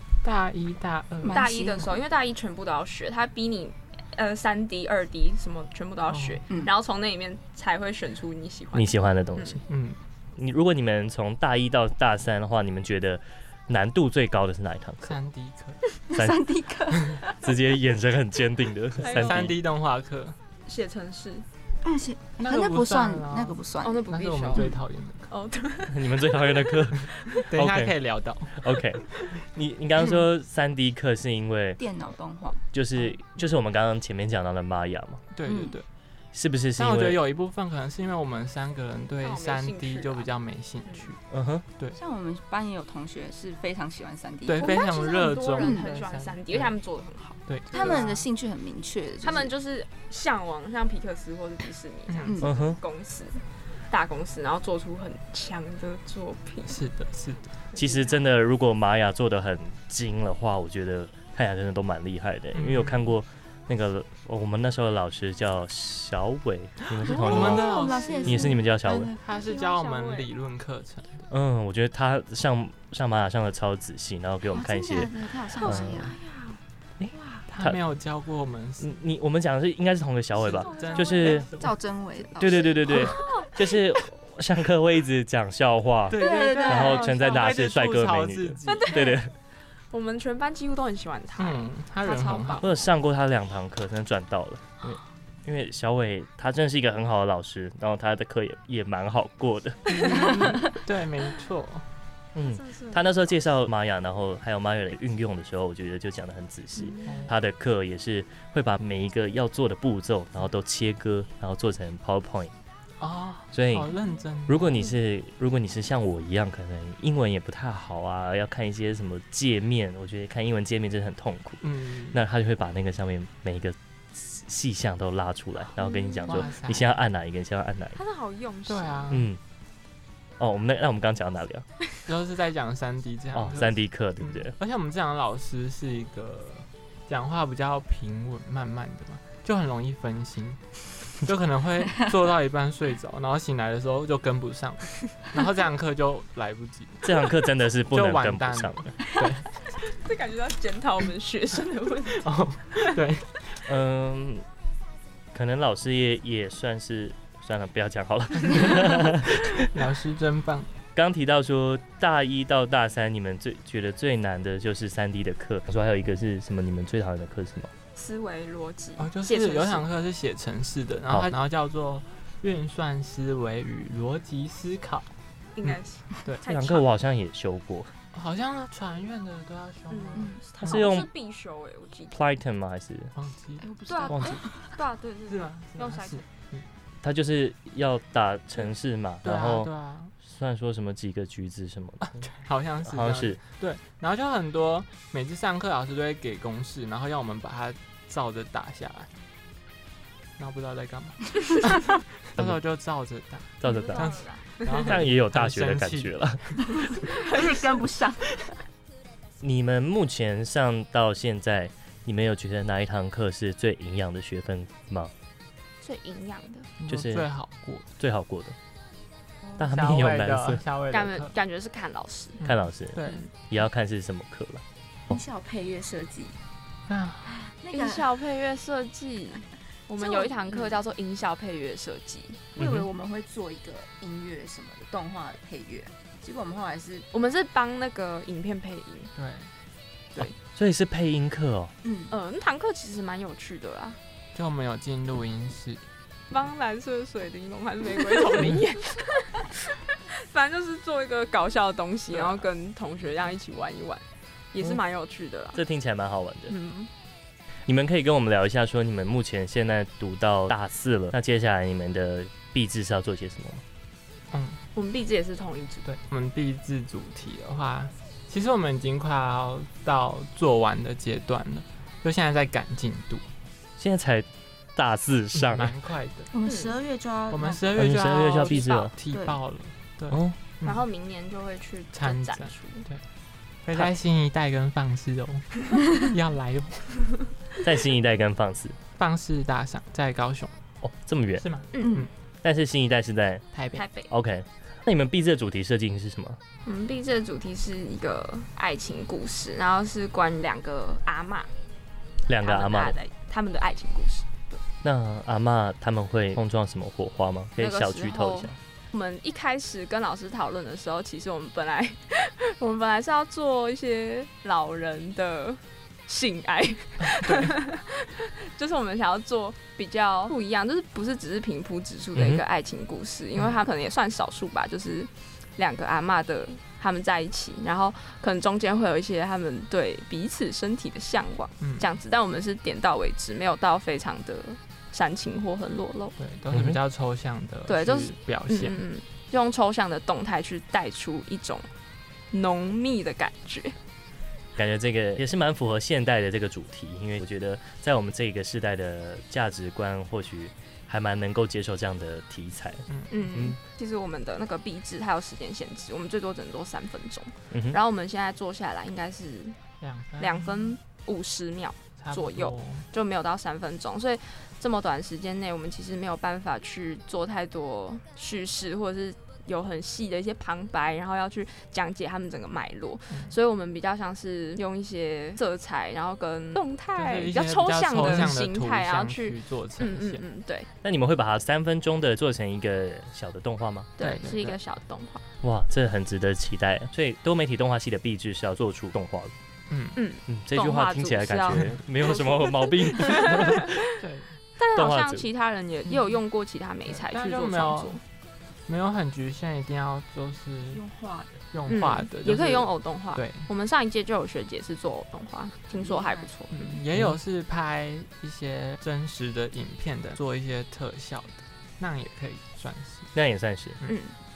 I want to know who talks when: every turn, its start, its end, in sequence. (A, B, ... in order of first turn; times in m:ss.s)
0:00.2-0:01.5 A
0:01.2-0:02.0 B
0:01.3-0:09.6 C
0:06.1-0:06.4 A
0:08.7-0:09.6 D
0:09.7-0:10.0 A
0:10.4-0:15.2 D
0:15.0-0:15.8 A
0:16.1-0:17.3 B
0:16.2-0:16.4 D
0:17.2-0:19.6 D
0:19.0-0:20.4 A
0:19.0-0:19.5 C
0:20.7-0:21.5 C
0:21.8-0:24.7 B
0:22.4-0:25.3 A
0:23.8-0:24.8 C
0:25.3-0:26.7 C
0:25.9-0:28.0 D
0:27.4-0:28.8 A
0:28.5-0:31.8 D
0:31.8-0:32.6 B
0:32.7-0:35.3 D
0:35.3-0:35.9 A
0:35.4-0:35.8 B
0:36.3-0:37.2 D
0:36.8-0:41.2 A
0:39.2-0:40.3 C
0:40.9-0:41.1 C
0:41.3-0:41.6 D
0:41.9-0:45.0 B
0:44.5-0:46.7 A
0:44.6-0:48.1 C
0:45.6-0:45.8 B
0:47.5-0:48.2 A
0:47.7-0:49.5 B
0:49.2-0:56.8 C
0:52.1-0:52.4 A
0:52.4-0:52.8 D
0:56.7-0:57.5 A
0:57.7-0:58.2 C
0:57.8-1:09.1 D
1:02.5-1:03.1 A
1:07.0-1:11.3 A
1:07.1-1:09.2 B
1:09.3-1:10.3 C
1:11.3-1:16.1 D
1:14.5-1:16.2 B
1:15.6-1:16.6 C
1:17.0-1:17.8 D
1:17.1-1:17.4 C
1:17.5-1:18.9 A
1:18.8-1:21.5 D
1:20.4-1:21.7 A
1:20.7-1:21.4 C
1:21.2-1:23.3 B
1:22.4-1:29.3 D
1:22.9-1:23.5 C
1:26.1-1:29.2 A
1:26.1-1:27.2 B
1:28.7-1:29.2 C
1:29.9-1:32.8 C
1:31.4-1:32.7 A
1:32.6-1:40.3 D
1:39.9-1:41.9 A
1:42.4-1:52.5 D
1:42.5-1:43.0 C
1:46.8-1:47.2 C
1:47.1-1:47.3 A
1:53.0-1:54.8 A
1:53.5-1:53.9 D
1:54.5-2:08.0 D
2:01.6-2:02.2 A
2:05.8-2:06.4 C
2:06.3-2:07.0 A
2:08.0-2:09.1 C
2:08.7-2:09.3 A
2:09.1-2:09.4 D
2:10.4-2:11.7 D
2:12.0-2:27.3 A
2:13.3-2:14.5 D
2:27.0-2:28.9 D
2:27.9-2:29.6 A
2:29.8-2:32.3 C
2:32.2-2:33.6 A
2:33.6-2:34.4 D
2:35.3-2:39.6 D
2:38.6-2:40.7 A
2:41.0-2:47.7 D
2:48.0-2:49.9 C
2:49.0-2:55.1 A
2:55.6-2:56.9 C
2:55.7-2:56.4 A
2:56.4-2:57.9 D
2:58.1-3:00.8 A
2:59.9-3:02.2 C
3:00.2-3:00.4 B
3:00.6-3:01.1 D
3:02.1-3:03.1 D
3:03.2-3:03.7 A
3:03.6-3:04.7 B
3:03.9-3:06.2 C
3:04.1-3:04.4 D
3:05.3-3:06.6 A
3:07.0-3:12.3 D
3:09.2-3:10.1 A
3:12.1-3:19.1 A
3:12.8-3:13.4 D
3:20.4-3:26.9 A
3:23.6-3:26.9 D
3:23.6-3:24.9 C
3:27.0-3:28.6 B
3:29.4-3:35.1 D
3:35.8-3:36.7 C
3:36.8-3:37.9 A
3:36.9-3:37.3 D
3:38.0-3:38.6 D
3:39.6-3:41.3 A
3:39.6-3:40.6 D
3:40.9-3:42.4 C
3:42.4-3:43.2 A
3:42.4-3:44.6 D
3:45.1-3:46.4 B
3:46.9-3:47.4 A
3:47.4-3:48.1 B
3:47.7-3:52.5 C
3:50.0-3:50.8 B
3:52.6-3:52.9 D
3:52.6-3:57.1 B
3:57.1-3:59.1 C
3:59.2-3:59.5 A
4:00.2-4:01.7 D
4:01.8-4:02.1 B
4:02.1-4:04.0 C
4:04.3-4:05.8 A
4:06.3-4:15.6 C
4:15.5-4:16.5 D
4:16.5-4:16.9 C
4:17.7-4:23.6 D
4:24.3-4:24.6 A
4:24.8-4:25.9 C
4:25.9-4:33.3 A
4:33.8-4:35.7 D
4:35.4-4:36.3 A
4:36.3-4:37.8 B
4:36.4-4:36.8 C
4:37.3-4:40.8 A
4:37.7-4:38.9 D
4:38.5-4:38.9 C
4:39.1-4:39.4 B
4:40.1-4:40.4 D
4:40.6-4:42.9 C
4:41.9-4:43.0 A
4:43.6-4:47.2 A
4:47.6-4:48.8 D
4:49.0-4:50.5 A
4:50.8-4:51.4 D
4:51.4-4:52.1 A
4:51.7-4:52.0 C
4:51.8-4:52.1 B
4:52.4-4:53.5 D
4:53.5-4:53.8 A
4:53.7-4:54.1 C
4:54.1-4:56.4 D
4:56.6-5:01.5 C
5:02.3-5:03.0 D
5:02.4-5:04.6 C
5:04.8-5:08.5 D
5:07.6-5:36.2 C
5:17.0-5:17.5 A
5:22.2-5:22.4 D
5:31.6-5:31.9 A
5:36.2-5:38.8 A
5:36.5-5:36.8 D
5:37.7-5:41.7 C
5:42.3-5:43.8 C
5:44.6-5:53.6 D
5:53.1-5:59.6 C
5:57.5-5:57.8 D
5:59.8-6:00.8 A
6:00.2-6:20.7 C
6:02.0-6:02.9 A
6:13.1-6:13.4 A
6:17.0-6:20.2 A
6:18.0-6:18.3 D
6:20.8-6:23.9 D
6:24.0-6:25.2 C
6:24.0-6:24.6 A
6:25.4-6:29.3 D
6:29.7-6:30.0 A
6:30.0-6:33.9 C
6:30.3-6:33.8 D
6:34.0-6:34.4 A
6:34.6-6:38.0 C
6:34.8-6:35.3 D
6:36.9-6:38.0 A
6:38.7-6:40.8 A
6:40.7-6:41.4 B
6:41.5-6:43.5 A
6:41.7-6:46.8 C
6:45.7-6:46.3 B
6:46.5-6:53.1 A
6:53.1-6:53.8 D
6:53.8-6:54.2 C